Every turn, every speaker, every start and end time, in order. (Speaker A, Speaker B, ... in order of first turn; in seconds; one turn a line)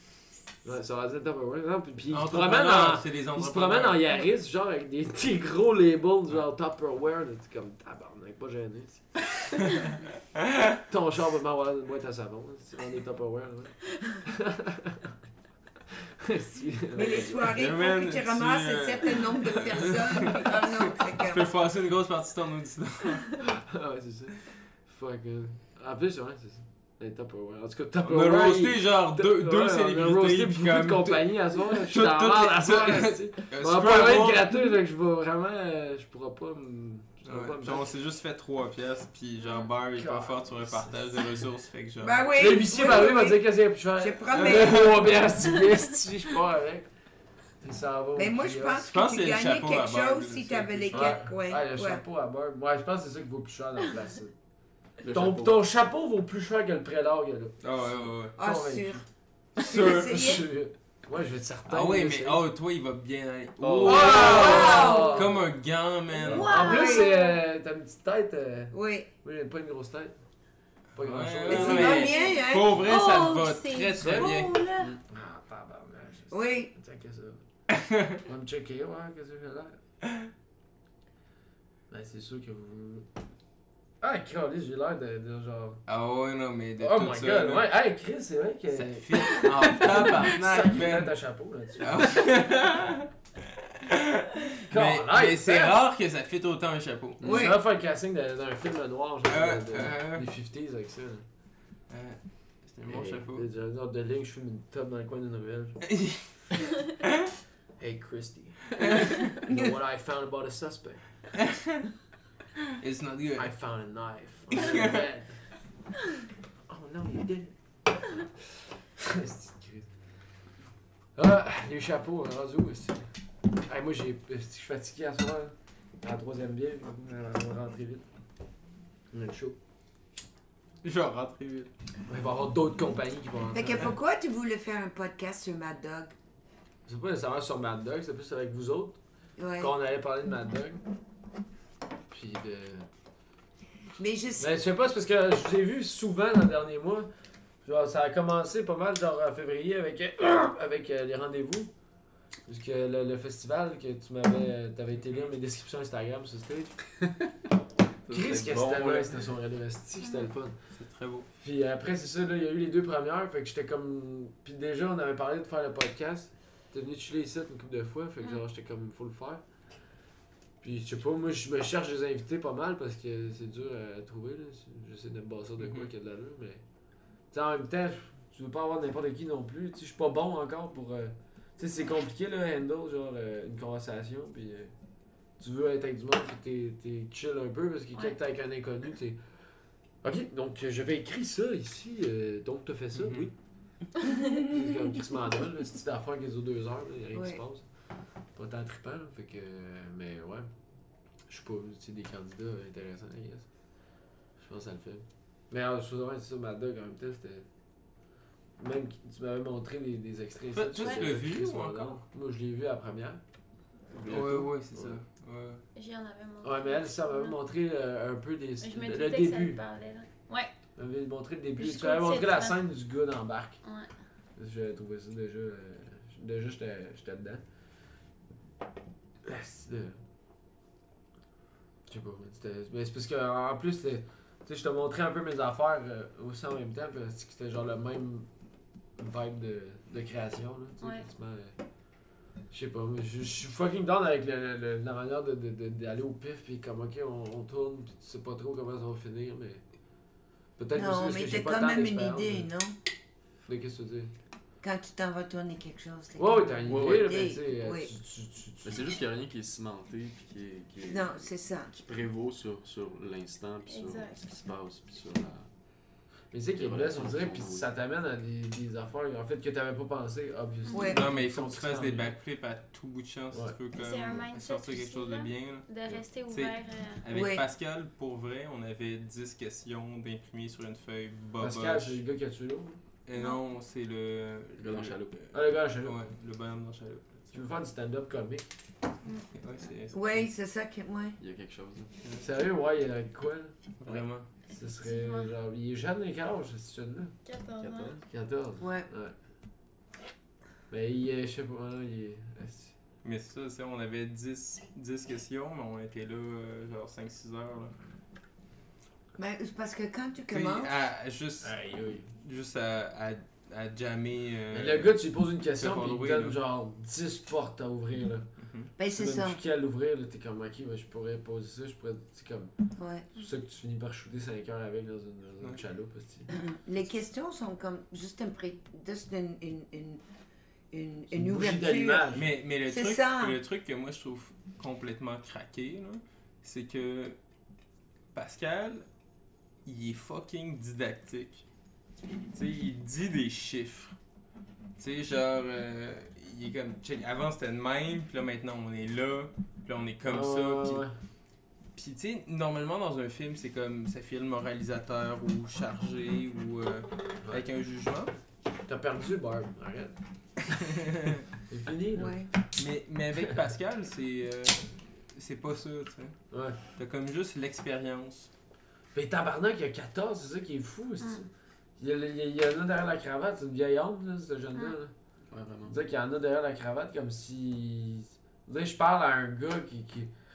Speaker A: 0.6-9.6
Speaker B: 2.1-4.0
Speaker A: 10.9-15.1
Speaker A: 16.2-17.4
Speaker C: 16.9-21.5
Speaker B: 17.5-23.5
Speaker A: 23.4-37.9
Speaker B: 28.0-34.5
Speaker B: 37.3-42.3
Speaker D: 39.4-39.7
Speaker A: 40.0-41.3
Speaker C: 42.0-45.2
Speaker A: 42.4-46.9
Speaker B: 44.4-45.0
Speaker A: 47.6-48.8
Speaker C: 48.2-52.0
Speaker B: 48.8-51.2
Speaker A: 50.9-54.3
Speaker E: 55.0-55.6
Speaker A: 55.1-59.0
Speaker B: 57.6-58.4
Speaker C: 58.4-59.0
Speaker C: 59.6-60.5
Speaker A: 59.6-62.4
Speaker B: 59.6-60.2
Speaker B: 61.7-66.6
Speaker E: 63.6-64.6
Speaker A: 63.8-65.5
Speaker C: 63.9-65.4
Speaker D: 66.2-67.4
Speaker A: 66.3-70.2
Speaker C: 66.3-67.2
Speaker C: 68.7-69.1
Speaker A: 71.0-72.2
Speaker B: 71.0-74.6
Speaker C: 71.5-72.9
Speaker D: 71.8-74.9
Speaker A: 74.0-74.4
Speaker A: 75.1-77.4
Speaker C: 76.3-76.7
Speaker B: 77.8-78.2
Speaker A: 78.2-79.8
Speaker A: 81.9-83.1
Speaker A: 84.0-85.8
Speaker B: 85.9-87.7
Speaker A: 86.8-92.2
Speaker B: 88.7-91.1
Speaker B: 91.8-93.1
Speaker B: 93.8-97.4
Speaker A: 94.7-95.8
Speaker C: 97.2-97.6
Speaker A: 97.2-101.2
Speaker B: 99.3-100.2
Speaker B: 101.9-103.4
Speaker A: 102.9-105.8
Speaker B: 105.9-106.2
Speaker A: 107.8-111.0
Speaker B: 108.8-109.2
Speaker C: 109.4-109.7
Speaker B: 112.8-113.5
Speaker A: 113.4-115.4
Speaker B: 114.6-115.0
Speaker A: 116.7-117.5
Speaker A: 119.0-119.9
Speaker A: 121.2-123.0
Speaker A: 123.6-128.1
Speaker A: 129.1-129.6
Speaker B: 130.8-131.7
Speaker A: 132.1-133.9
Speaker C: 133.5-136.2
Speaker A: 136.9-139.0
Speaker C: 139.4-139.7
Speaker A: 139.6-140.8
Speaker A: 142.1-142.9
Speaker C: 144.0-144.5
Speaker A: 144.4-147.1
Speaker A: 147.7-151.7
Speaker A: 152.5-156.9
Speaker E: 158.1-159.3
Speaker A: 158.1-160.6
Speaker D: 160.0-160.3
Speaker B: 160.8-161.3
Speaker A: 161.4-169.4
Speaker A: 170.6-176.6
Speaker B: 175.6-175.9
Speaker A: 177.3-184.7
Speaker A: 185.4-189.2
Speaker A: 190.0-193.3
Speaker B: 192.9-193.3
Speaker A: 194.4-197.7
Speaker C: 197.1-197.4
Speaker A: 198.3-200.5
Speaker A: 201.3-203.5
Speaker A: 204.4-207.4
Speaker A: 208.6-213.2
Speaker B: 210.5-212.0
Speaker D: 210.8-211.1
Speaker E: 213.9-214.5
Speaker B: 214.1-215.6
Speaker D: 215.8-217.4
Speaker A: 216.4-219.6
Speaker D: 218.6-220.5
Speaker A: 220.8-223.6
Speaker D: 221.6-222.6
Speaker D: 223.6-223.9
Speaker A: 224.4-227.4
Speaker A: 229.2-230.0
Speaker A: 231.9-238.3
Speaker A: 239.0-241.6
Speaker D: 240.8-241.1
Speaker A: 242.5-249.6
Speaker A: 250.6-252.5
Speaker C: 250.7-252.8
Speaker A: 253.5-254.1
Speaker C: 254.6-257.9
Speaker A: 256.2-258.9
Speaker E: 256.7-257.1
Speaker E: 258.6-265.5
Speaker C: 260.9-261.7
Speaker D: 263.7-264.2
Speaker A: 266.3-272.1
Speaker E: 266.5-267.7
Speaker D: 270.7-270.9
Speaker C: 270.7-271.0
Speaker B: 270.8-282.0
Speaker D: 273.7-277.1
Speaker C: 277.1-277.4
Speaker A: 281.4-282.8
Speaker B: 283.1-287.4
Speaker D: 283.2-283.4
Speaker E: 284.6-285.2
Speaker A: 285.3-286.0
Speaker A: 287.3-288.5
Speaker B: 289.3-290.3
Speaker C: 289.9-291.2
Speaker E: 291.2-291.9
Speaker A: 292.2-293.5
Speaker B: 293.8-294.3
Speaker A: 294.5-297.1
Speaker D: 294.8-295.3
Speaker D: 297.2-297.9
Speaker E: 297.6-298.1
Speaker A: 298.1-299.1
Speaker C: 298.6-298.9
Speaker A: 300.7-302.7
Speaker B: 303.0-307.7
Speaker C: 309.2-310.7
Speaker B: 310.3-311.6
Speaker A: 311.4-312.1
Speaker B: 312.2-314.9
Speaker A: 314.5-318.3
Speaker B: 315.6-316.4
Speaker B: 318.4-318.7
Speaker C: 318.8-319.4
Speaker A: 318.9-322.5
Speaker C: 322.8-323.1
Speaker A: 323.1-326.3
Speaker C: 326.3-330.0
Speaker C: 330.7-333.4
Speaker A: 331.1-332.2
Speaker B: 332.1-337.2
Speaker B: 338.1-338.9
Speaker B: 339.7-341.4
Speaker B: 342.3-343.9
Speaker B: 344.8-350.8
Speaker A: 350.0-350.9
Speaker B: 351.8-358.1
Speaker A: 358.7-360.0
Speaker B: 360.7-361.2
Speaker A: 361.5-362.2
Speaker C: 361.9-362.3
Speaker B: 362.6-366.1
Speaker A: 366.3-366.6
Speaker B: 366.8-368.3
Speaker A: 368.9-371.3
Speaker A: 371.8-374.9
Speaker E: 375.3-375.8
Speaker A: 375.7-380.1